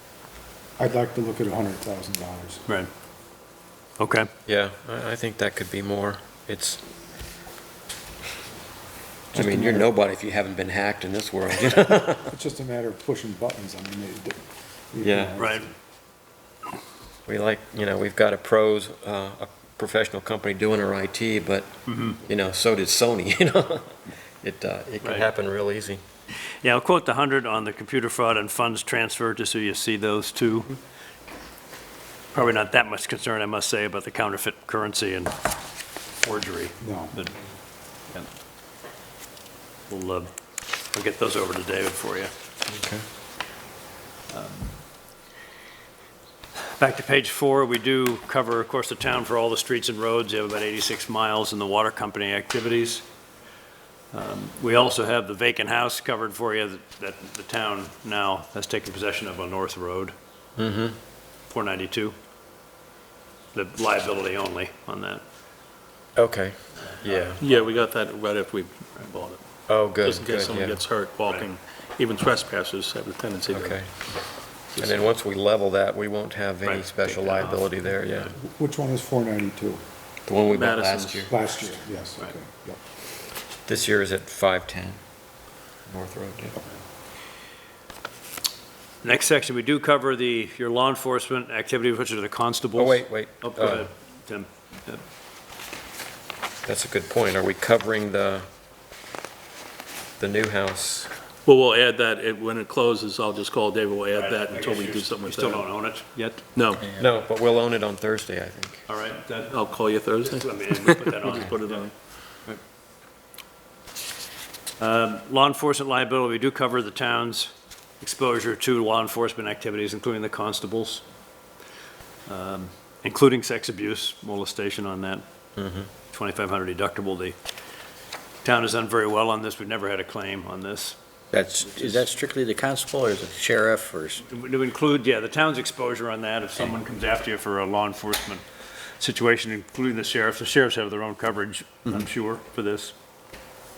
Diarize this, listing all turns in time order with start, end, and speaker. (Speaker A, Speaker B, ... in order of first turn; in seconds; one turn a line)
Speaker A: 0.8-2.6
Speaker B: 4.0-4.3
Speaker C: 4.5-6.8
Speaker C: 9.3-12.3
Speaker A: 9.3-9.9
Speaker A: 12.3-14.4
Speaker A: 14.9-15.6
Speaker C: 15.0-15.3
Speaker B: 15.4-15.7
Speaker C: 17.2-26.0
Speaker B: 21.9-22.2
Speaker B: 26.6-30.8
Speaker B: 32.3-35.3
Speaker B: 36.2-37.4
Speaker A: 36.8-37.2
Speaker B: 39.9-40.3
Speaker B: 40.9-42.3
Speaker C: 42.7-43.0
Speaker B: 44.3-44.7
Speaker B: 46.8-53.0
Speaker B: 54.1-60.1
Speaker C: 60.6-61.0
Speaker B: 61.5-62.1
Speaker B: 63.5-65.2
Speaker C: 66.2-67.4
Speaker B: 67.0-67.7
Speaker D: 67.4-69.4
Speaker B: 69.0-69.3
Speaker C: 69.7-70.8
Speaker D: 70.0-73.8
Speaker B: 71.2-71.5
Speaker C: 73.5-73.9
Speaker D: 74.7-75.0
Speaker C: 74.8-78.3
Speaker B: 76.6-78.3
Speaker A: 78.3-79.8
Speaker C: 80.2-81.3
Speaker D: 80.5-81.3
Speaker A: 81.3-82.8
Speaker C: 83.7-85.0
Speaker C: 85.9-86.6
Speaker B: 89.0-95.0
Speaker C: 92.8-93.9
Speaker C: 96.6-98.4
Speaker C: 100.2-101.1
Speaker D: 101.4-105.7
Speaker B: 104.1-106.5
Speaker D: 106.5-106.9
Speaker C: 106.9-108.8
Speaker B: 108.9-109.6
Speaker D: 109.5-111.9
Speaker B: 110.2-111.9
Speaker B: 114.8-121.0
Speaker B: 122.3-125.2
Speaker C: 125.5-125.9
Speaker B: 126.1-127.3
Speaker B: 128.4-131.0
Speaker E: 131.3-134.2
Speaker B: 134.3-138.4
Speaker B: 139.0-142.9